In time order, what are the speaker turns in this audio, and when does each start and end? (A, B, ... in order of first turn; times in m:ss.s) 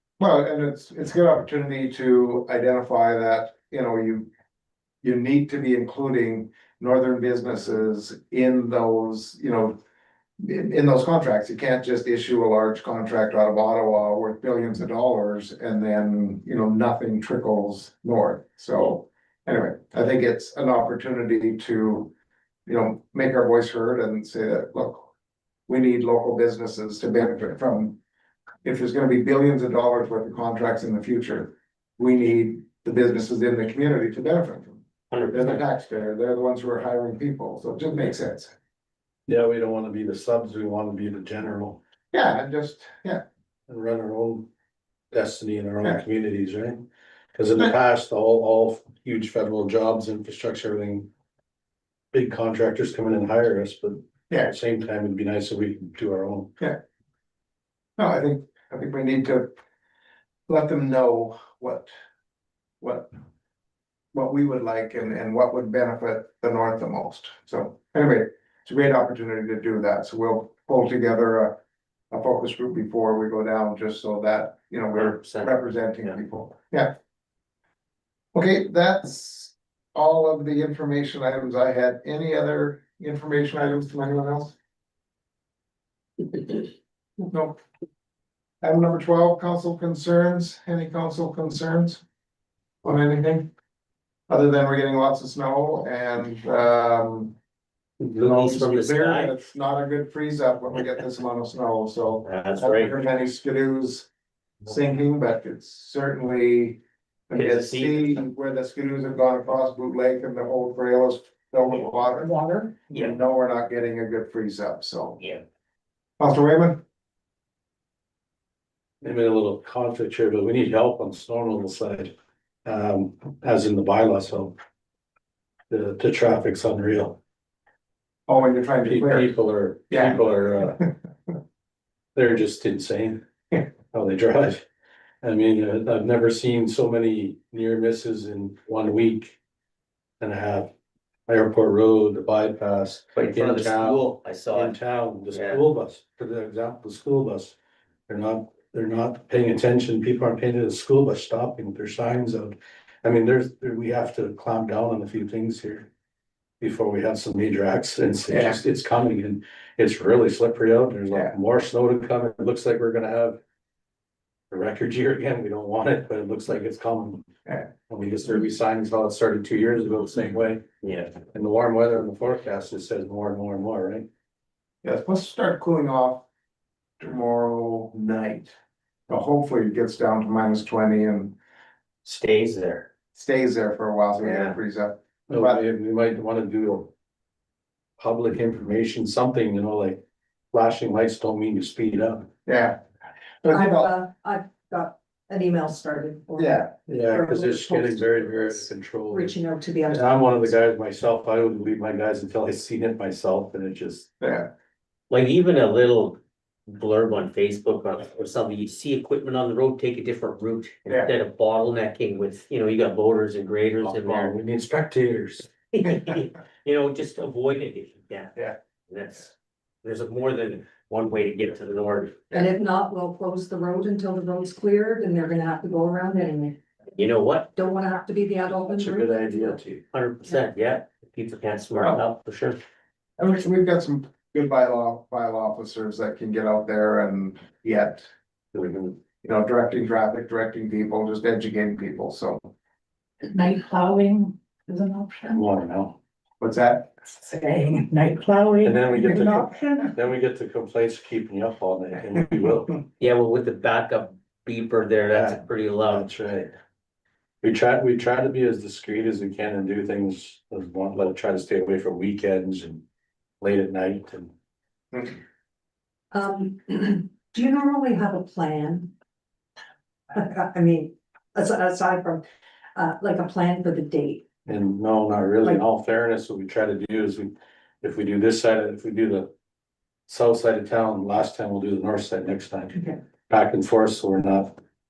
0:00.2-0:04.3 A
0:05.0-0:09.8 A
0:10.4-0:22.1 A
0:22.7-0:25.1 A
0:25.7-0:28.0 A
0:28.6-0:38.5 A
0:35.1-0:35.6 B
0:39.3-0:41.8 C
0:42.1-0:43.2 A
0:43.7-0:44.5 C
0:45.1-0:51.1 C
0:52.1-0:56.5 C
0:58.0-0:59.5 A
1:00.5-1:01.9 A
1:02.8-1:03.1 A
1:04.1-1:11.6 A
1:12.1-1:16.9 A
1:15.0-1:15.5 B
1:18.3-1:24.6 A
1:27.3-1:27.6 A
1:28.6-1:32.0 A
1:32.8-1:33.5 A
1:34.3-1:37.4 A
1:38.0-1:39.4 B
1:38.2-1:44.1 A
1:42.2-1:43.0 B
1:44.6-1:55.2 A
1:47.3-1:48.2 B
1:56.2-1:56.8 A
1:59.0-2:02.1 C
2:02.6-2:04.6 C
2:05.7-2:07.2 C
2:08.3-2:09.4 A
2:08.8-2:10.8 C
2:09.9-2:10.9 A
2:12.2-2:13.2 C
2:13.9-2:14.6 C
2:15.2-2:19.4 C
2:20.2-2:20.7 C
2:21.3-2:27.6 C
2:23.2-2:24.8 B
2:25.3-2:25.6 B
2:28.1-2:35.9 C
2:36.6-2:43.4 C
2:38.3-2:38.6 A
2:44.5-2:47.3 C
2:47.9-2:50.6 C
2:50.8-2:51.1 B
2:51.2-2:54.1 C
2:54.8-2:56.2 A
2:57.0-2:58.6 A
2:59.1-3:01.4 A
3:02.0-3:02.9 B
3:03.1-3:05.6 A
3:04.2-3:04.6 B
3:05.3-3:06.9 C
3:08.0-3:10.0 C
3:10.5-3:12.3 C
3:12.5-3:12.8 A
3:13.4-3:13.9 A
3:13.5-3:20.5 D
3:16.4-3:16.8 A
3:16.9-3:19.3 C
3:19.8-3:24.1 C
3:24.2-3:24.5 A
3:25.1-3:34.3 B
3:30.9-3:31.1 A
3:33.8-3:35.5 C
3:35.7-3:38.4 B
3:38.9-3:42.3 B
3:42.3-3:46.6 D
3:47.0-3:47.5 B
3:47.6-3:49.5 D
3:48.6-3:49.8 C
3:49.9-3:52.6 B
3:53.2-3:58.1 A
3:58.5-3:59.0 B
3:59.2-4:02.5 A
4:03.3-4:05.4 E
4:05.3-4:06.0 C
4:06.4-4:06.9 A
4:07.2-4:09.9 E
4:08.6-4:12.8 C
4:13.0-4:16.1 B
4:15.1-4:16.5 C
4:17.4-4:22.8 C
4:23.4-4:24.3 C
4:26.1-4:28.9 D
4:30.1-4:32.2 D
4:32.8-4:34.2 D
4:34.5-4:39.3 C
4:40.1-4:44.5 C